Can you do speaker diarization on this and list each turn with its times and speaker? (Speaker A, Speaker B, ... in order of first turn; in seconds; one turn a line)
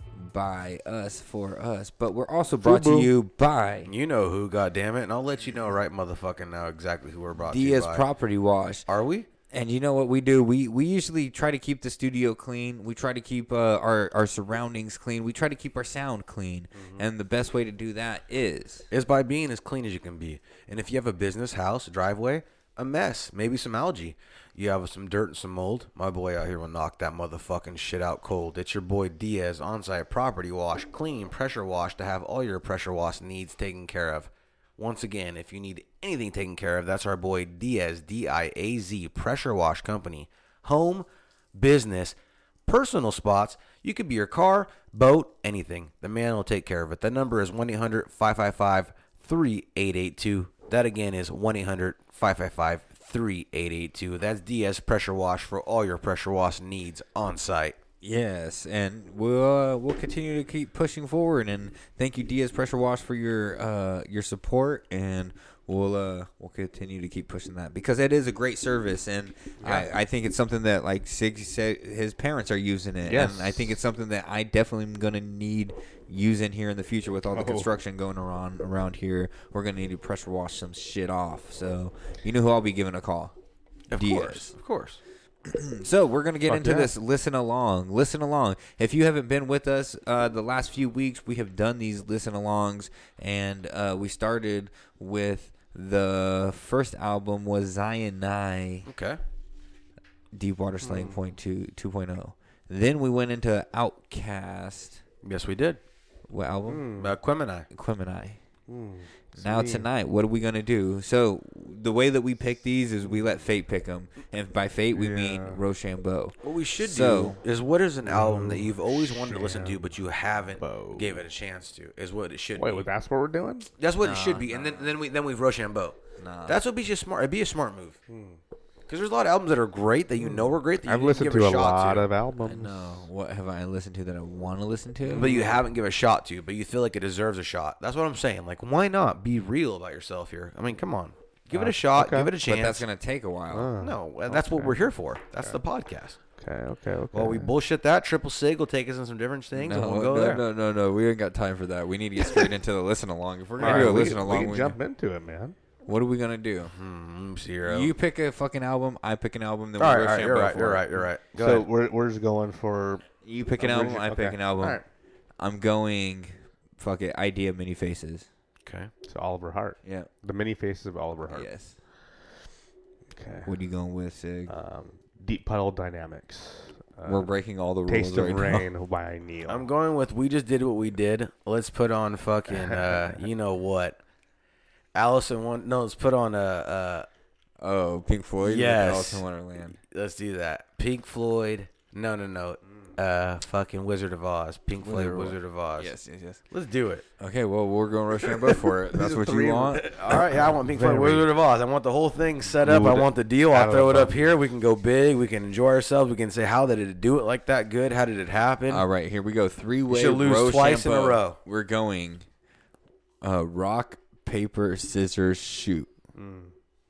Speaker A: 0.1-3.9
Speaker B: 2.6-3.1
Speaker C: 3.9-8.0
Speaker A: 7.4-8.9
Speaker C: 8.9-9.3
Speaker A: 9.5-18.9
Speaker C: 16.7-17.0
Speaker C: 18.9-57.8
Speaker A: 58.0-83.3
Speaker B: 69.6-69.9
Speaker B: 73.0-73.7
Speaker B: 77.3-77.7
Speaker C: 83.9-85.0
Speaker A: 84.0-84.5
Speaker A: 85.5-98.9
Speaker B: 86.5-86.9
Speaker C: 98.8-99.2
Speaker A: 100.3-105.0
Speaker B: 100.8-101.1
Speaker C: 105.2-105.8
Speaker A: 106.3-106.9
Speaker B: 106.7-107.1
Speaker C: 107.0-107.7
Speaker A: 107.7-108.4
Speaker B: 108.7-109.8
Speaker A: 109.4-117.4
Speaker B: 114.9-115.6
Speaker C: 116.4-122.9
Speaker B: 118.1-119.8
Speaker B: 120.6-121.2
Speaker B: 122.6-123.7
Speaker C: 123.8-128.0
Speaker A: 124.0-125.0
Speaker A: 126.2-126.6
Speaker B: 128.1-128.4
Speaker C: 128.9-132.1
Speaker B: 130.2-133.1
Speaker A: 132.4-135.4
Speaker B: 135.0-135.6
Speaker C: 135.1-142.8
Speaker B: 141.5-142.3
Speaker A: 142.4-143.7
Speaker B: 143.5-144.8
Speaker C: 143.8-146.2
Speaker B: 146.4-147.5
Speaker C: 147.1-150.4
Speaker A: 149.5-154.8
Speaker B: 153.6-155.5
Speaker C: 153.6-154.1
Speaker A: 155.8-156.7
Speaker C: 156.6-157.9
Speaker A: 157.6-160.9
Speaker C: 159.8-161.7
Speaker B: 161.4-163.0
Speaker A: 163.2-164.8
Speaker B: 163.6-164.8
Speaker A: 165.4-168.3
Speaker C: 168.6-168.9
Speaker B: 169.1-171.5
Speaker A: 169.8-170.1
Speaker A: 171.3-171.7
Speaker B: 173.1-173.5
Speaker A: 173.4-174.5
Speaker B: 174.5-177.3
Speaker A: 177.1-178.7
Speaker B: 177.9-179.6
Speaker C: 179.5-184.0
Speaker B: 182.5-183.1
Speaker C: 184.9-187.1
Speaker A: 187.6-189.8
Speaker C: 188.4-189.2
Speaker C: 189.8-195.9
Speaker A: 194.8-196.4
Speaker C: 196.5-197.1
Speaker A: 197.2-199.9
Speaker B: 198.9-201.3
Speaker C: 199.8-208.8
Speaker B: 202.6-204.1
Speaker A: 208.7-212.2
Speaker C: 209.9-211.4
Speaker A: 213.2-215.9
Speaker B: 216.1-216.5